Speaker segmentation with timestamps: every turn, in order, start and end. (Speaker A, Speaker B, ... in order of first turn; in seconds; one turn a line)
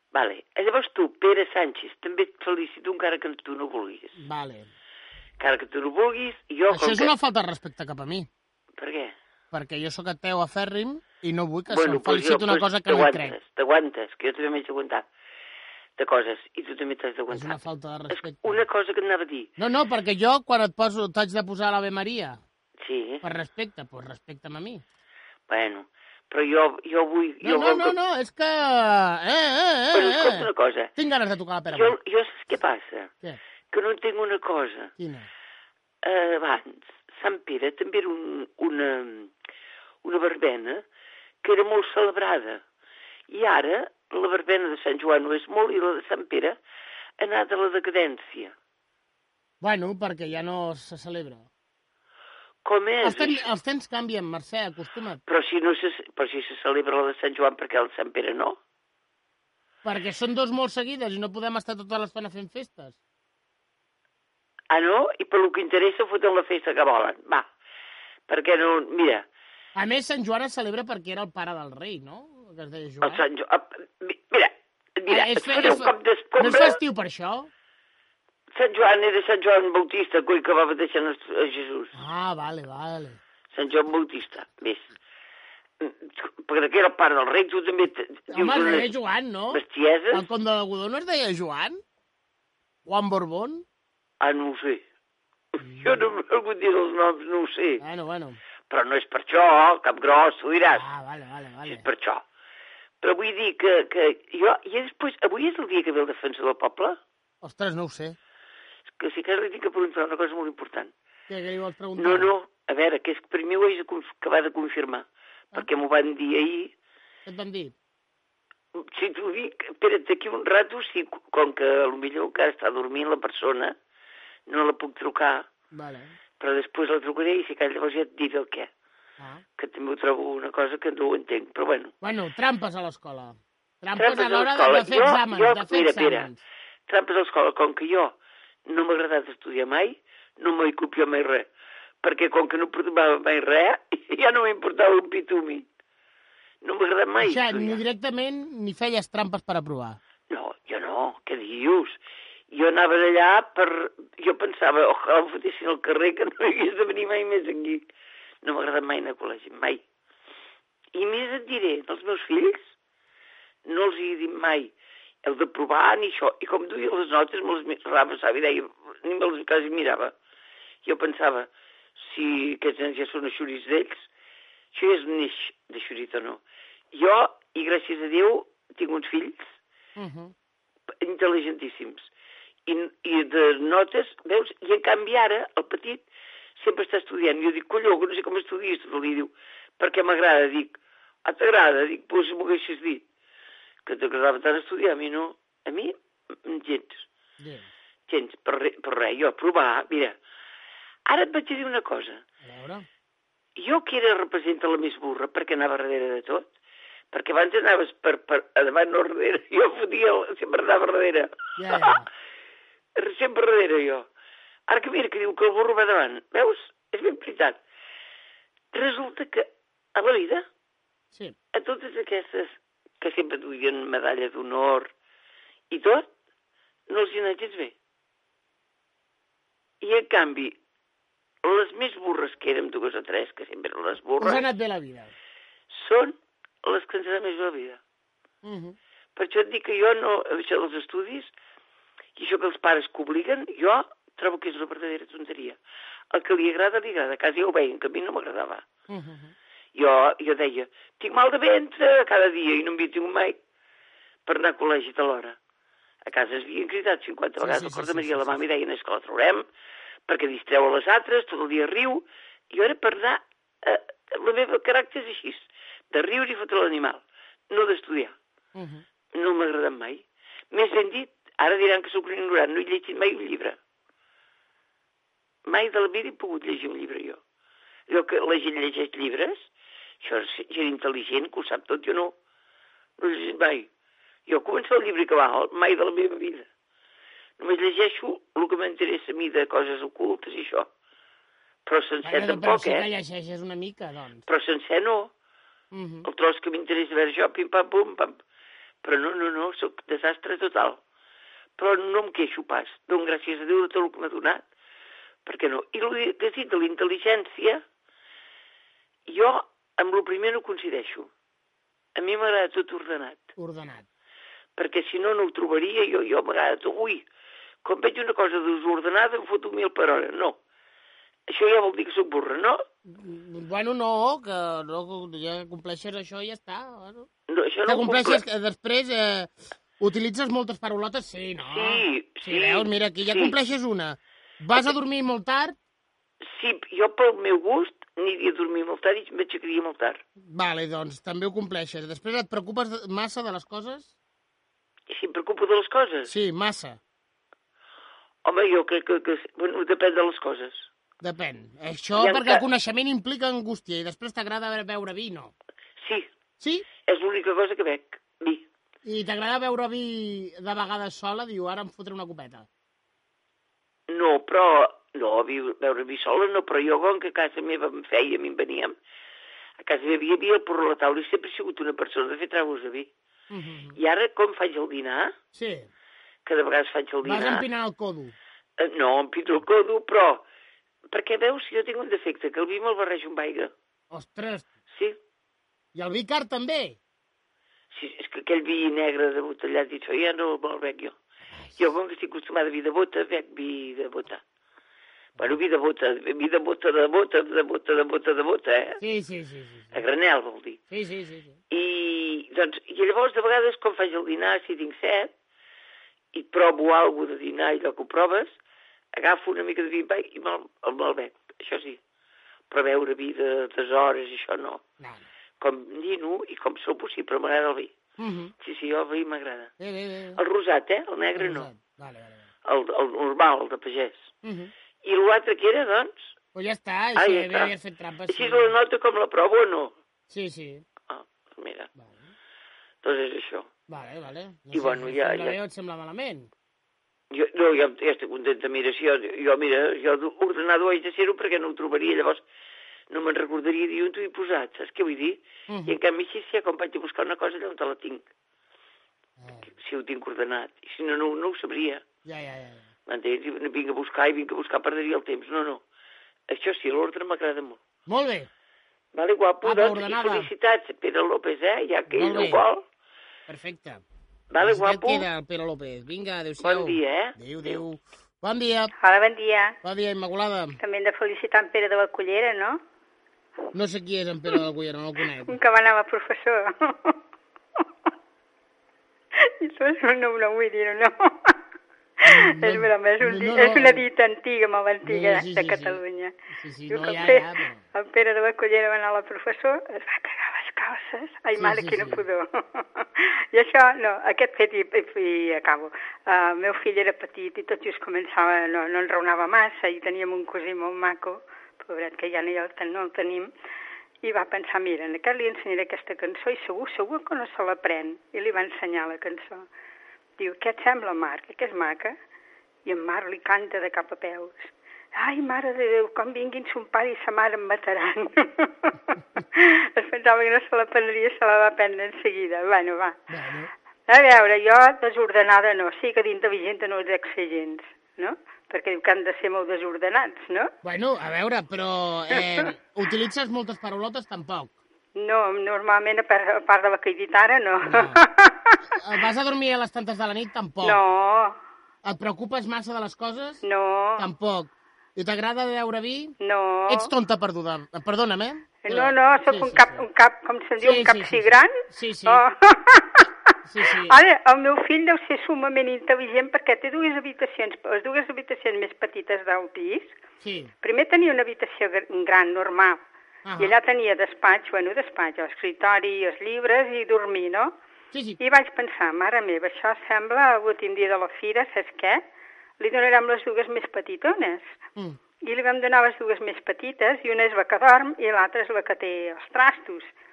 Speaker A: 0.1-4.2
Speaker B: 4.2-4.7
Speaker A: 5.4-7.1
Speaker B: 6.7-8.3
Speaker A: 8.8-9.2
Speaker B: 9.5-13.4
Speaker A: 11.7-15.1
Speaker A: 16.0-17.6
Speaker B: 17.3-18.6
Speaker A: 18.1-19.5
Speaker B: 19.6-22.4
Speaker A: 22.8-23.2
Speaker B: 23.2-24.8
Speaker A: 25.5-27.9
Speaker B: 27.4-31.9
Speaker A: 29.9-30.9
Speaker A: 31.7-33.1
Speaker A: 33.7-34.9
Speaker B: 35.0-35.3
Speaker A: 36.0-39.3
Speaker A: 40.0-40.8
Speaker A: 41.4-42.6
Speaker A: 43.3-46.6
Speaker A: 47.2-48.5
Speaker B: 49.6-51.5
Speaker A: 52.6-53.5
Speaker B: 53.0-55.2
Speaker A: 55.3-58.6
Speaker B: 59.8-63.0
Speaker A: 64.7-67.5
Speaker A: 68.3-69.3
Speaker B: 69.8-73.2
Speaker A: 73.0-76.8
Speaker B: 75.1-77.5
Speaker A: 78.5-81.9
Speaker B: 81.9-83.2
Speaker A: 83.5-84.9
Speaker A: 85.8-88.9
Speaker B: 88.3-91.8
Speaker A: 89.5-90.2
Speaker B: 92.9-93.7
Speaker A: 94.2-94.8
Speaker A: 95.6-97.8
Speaker B: 95.6-96.0
Speaker B: 97.8-98.4
Speaker A: 98.7-100.8
Speaker B: 100.6-101.8
Speaker A: 101.7-102.2
Speaker A: 103.0-107.0
Speaker B: 107.4-108.2
Speaker A: 109.0-110.9
Speaker B: 111.3-112.3
Speaker A: 112.0-116.7
Speaker B: 117.3-117.8
Speaker A: 118.8-123.8
Speaker A: 124.5-125.5
Speaker B: 125.7-126.2
Speaker A: 126.4-128.7
Speaker B: 129.2-129.4
Speaker A: 129.6-131.9
Speaker B: 132.0-136.4
Speaker A: 134.0-136.3
Speaker A: 136.9-141.5
Speaker A: 142.0-145.7
Speaker A: 146.6-147.8
Speaker B: 147.2-150.0
Speaker A: 150.3-152.0
Speaker A: 152.5-157.8
Speaker A: 158.4-159.8
Speaker A: 160.9-162.7
Speaker A: 163.7-164.7
Speaker A: 165.2-170.1
Speaker A: 170.8-174.1
Speaker A: 174.7-176.4
Speaker A: 176.9-179.6
Speaker B: 180.0-180.3
Speaker A: 181.0-182.1
Speaker A: 182.7-186.0
Speaker A: 186.6-193.0
Speaker A: 193.9-197.1
Speaker B: 197.4-197.7
Speaker A: 198.1-200.2
Speaker A: 201.1-202.2
Speaker B: 202.4-202.9
Speaker A: 203.6-206.5
Speaker A: 207.1-211.9
Speaker B: 211.6-212.1
Speaker A: 213.0-214.1
Speaker A: 214.7-217.6
Speaker A: 218.7-220.4
Speaker A: 221.5-224.9
Speaker A: 225.7-226.1
Speaker A: 226.9-227.7
Speaker A: 229.8-230.6
Speaker A: 231.4-234.4
Speaker B: 234.2-235.1
Speaker A: 235.7-237.8
Speaker B: 238.4-238.8
Speaker A: 239.2-241.3
Speaker A: 242.2-245.6
Speaker A: 246.1-248.6
Speaker B: 248.9-249.3
Speaker A: 249.8-253.4
Speaker A: 254.3-255.4
Speaker A: 256.1-259.4
Speaker B: 257.4-258.4
Speaker A: 260.1-268.1
Speaker B: 268.6-268.8
Speaker A: 269.1-273.6
Speaker A: 275.5-277.2
Speaker A: 277.9-279.5
Speaker A: 280.0-282.1
Speaker A: 283.0-283.7
Speaker A: 284.3-286.5
Speaker A: 287.4-290.7
Speaker A: 291.7-292.9
Speaker B: 292.0-294.3
Speaker A: 294.3-295.1
Speaker B: 295.7-296.1
Speaker A: 296.1-298.2
Speaker A: 298.8-300.8
Speaker A: 301.6-304.4
Speaker A: 305.2-307.6
Speaker A: 309.1-311.1
Speaker A: 312.0-313.3
Speaker B: 313.4-313.9
Speaker A: 314.6-317.0
Speaker A: 317.6-320.4
Speaker A: 321.3-322.6
Speaker B: 322.9-327.1
Speaker A: 327.3-328.2
Speaker B: 327.7-335.6
Speaker A: 331.5-333.3
Speaker A: 336.2-340.0
Speaker B: 340.2-343.9
Speaker A: 344.9-346.1
Speaker B: 346.1-346.8
Speaker A: 348.2-350.7
Speaker B: 351.0-355.3
Speaker A: 352.0-352.4
Speaker A: 355.8-356.1
Speaker B: 356.4-356.7
Speaker A: 356.9-358.4
Speaker B: 358.9-362.5
Speaker A: 363.9-368.8
Speaker A: 369.6-372.9
Speaker B: 373.3-373.8
Speaker A: 373.8-375.1
Speaker B: 375.3-375.7
Speaker A: 376.3-377.4
Speaker B: 377.0-378.1
Speaker A: 378.6-380.2
Speaker A: 380.9-383.5
Speaker B: 383.9-384.5
Speaker A: 384.7-385.0
Speaker B: 385.8-386.8
Speaker A: 387.7-391.0
Speaker B: 391.3-391.7
Speaker A: 391.6-394.2
Speaker A: 395.2-398.8
Speaker B: 398.8-399.8
Speaker A: 399.7-400.6
Speaker B: 400.7-401.4
Speaker A: 401.5-405.1
Speaker A: 406.1-408.4
Speaker A: 408.9-411.8
Speaker A: 412.5-414.6
Speaker B: 414.8-415.1
Speaker A: 415.4-417.7
Speaker B: 418.0-418.3
Speaker A: 418.4-419.5
Speaker B: 419.6-420.2
Speaker A: 420.2-421.5
Speaker B: 421.2-422.3
Speaker A: 422.5-424.1
Speaker B: 424.2-424.5
Speaker A: 424.8-426.2
Speaker B: 426.4-428.5
Speaker A: 427.0-427.5
Speaker A: 428.1-429.8
Speaker B: 430.1-430.6
Speaker A: 430.9-431.7
Speaker B: 431.8-432.1
Speaker A: 432.8-433.5
Speaker B: 433.7-436.3
Speaker A: 434.5-435.4
Speaker A: 437.1-442.2
Speaker A: 442.9-448.0
Speaker B: 445.5-445.8
Speaker B: 449.2-449.5
Speaker A: 449.6-451.8
Speaker B: 452.1-452.7
Speaker A: 452.9-455.6
Speaker A: 456.3-457.6
Speaker B: 457.9-458.3
Speaker A: 458.9-462.6
Speaker B: 459.4-460.3
Speaker B: 461.9-462.4
Speaker B: 463.3-463.8
Speaker A: 464.3-465.1
Speaker B: 464.4-468.7
Speaker A: 466.4-467.1
Speaker C: 468.8-469.6
Speaker B: 469.6-470.6
Speaker C: 470.6-472.6
Speaker B: 473.5-475.4
Speaker C: 475.3-477.0
Speaker C: 479.2-481.4
Speaker B: 482.1-483.8
Speaker C: 482.1-486.1
Speaker B: 484.9-485.8
Speaker B: 486.3-487.6
Speaker C: 486.7-503.3
Speaker B: 491.4-492.1
Speaker C: 504.0-509.5
Speaker C: 510.2-511.9
Speaker C: 512.7-518.8
Speaker C: 519.3-523.0
Speaker B: 523.1-523.5
Speaker C: 523.9-530.5
Speaker B: 530.6-534.5
Speaker C: 535.0-538.6
Speaker B: 537.6-538.0
Speaker B: 538.8-540.8
Speaker C: 540.6-541.4
Speaker B: 541.8-543.4
Speaker C: 543.4-544.1
Speaker B: 544.0-546.1
Speaker C: 546.2-546.9
Speaker B: 546.7-549.8
Speaker C: 548.6-553.1
Speaker B: 550.6-552.2
Speaker B: 553.5-554.0
Speaker C: 553.9-560.0
Speaker B: 560.2-560.5
Speaker C: 560.6-562.8
Speaker B: 563.2-563.5
Speaker C: 563.4-567.5
Speaker B: 567.9-568.2
Speaker C: 568.2-572.0
Speaker C: 572.6-574.6
Speaker C: 575.2-579.9